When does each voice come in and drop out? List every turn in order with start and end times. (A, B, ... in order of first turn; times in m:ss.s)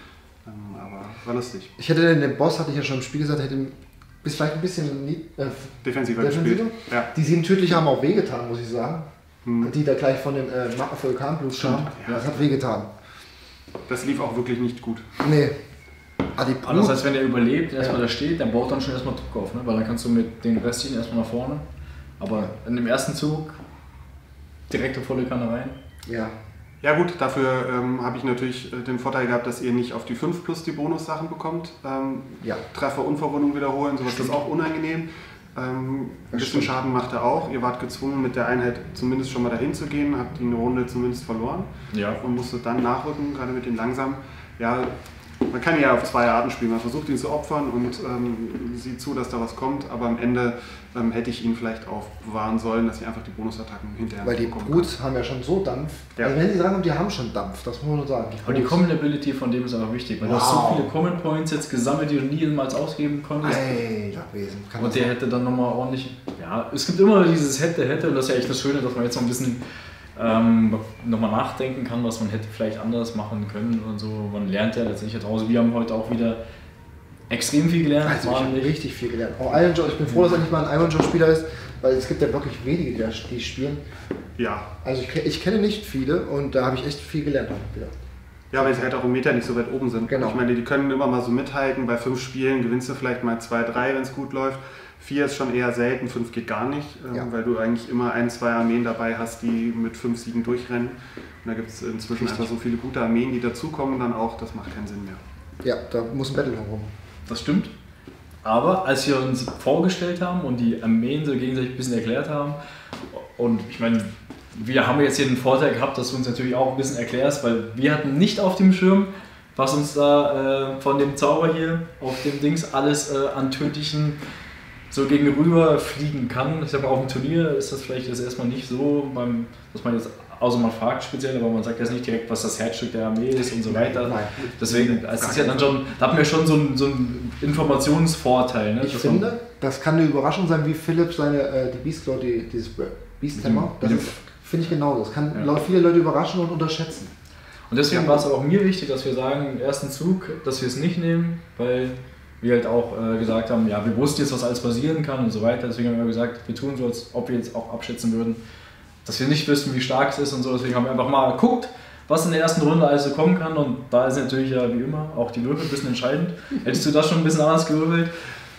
0:00.4-0:01.7 A
0:01.8-0:09.1 B
0:05.8-0:07.1 A
0:09.4-0:09.7 A
0:09.6-0:12.9 B
0:11.6-0:12.2 A
0:13.9-0:15.1 A
0:15.2-0:15.6 B
0:16.3-0:17.0 B
0:16.6-0:21.6 C
0:22.2-0:23.6 C
0:24.7-0:25.8 C
0:26.0-0:26.3 B
0:26.8-0:44.9 A
0:36.3-0:36.8 B
0:41.9-0:42.2 C
0:45.5-0:54.9 A
0:54.2-0:58.8 B
0:58.4-1:03.6 C
1:00.2-1:00.9 B
1:03.4-1:05.1 B
1:04.8-1:09.6 C
1:10.2-1:16.4 C
1:17.3-1:18.7 C
1:18.0-1:23.8 B
1:24.4-1:24.7 A
1:24.8-1:27.9 B
1:28.5-1:45.2 A
1:30.1-1:30.4 B
1:42.2-1:42.5 B
1:45.6-1:46.9 B
1:47.3-1:47.7 C
1:48.4-1:52.6 C
1:53.1-2:04.2 C
2:04.9-2:19.3 C
2:13.7-2:14.4 B
2:14.6-2:15.7 A
2:18.8-2:27.1 B
2:23.4-2:24.2 C
2:27.7-2:38.4 C
2:39.0-2:48.1 C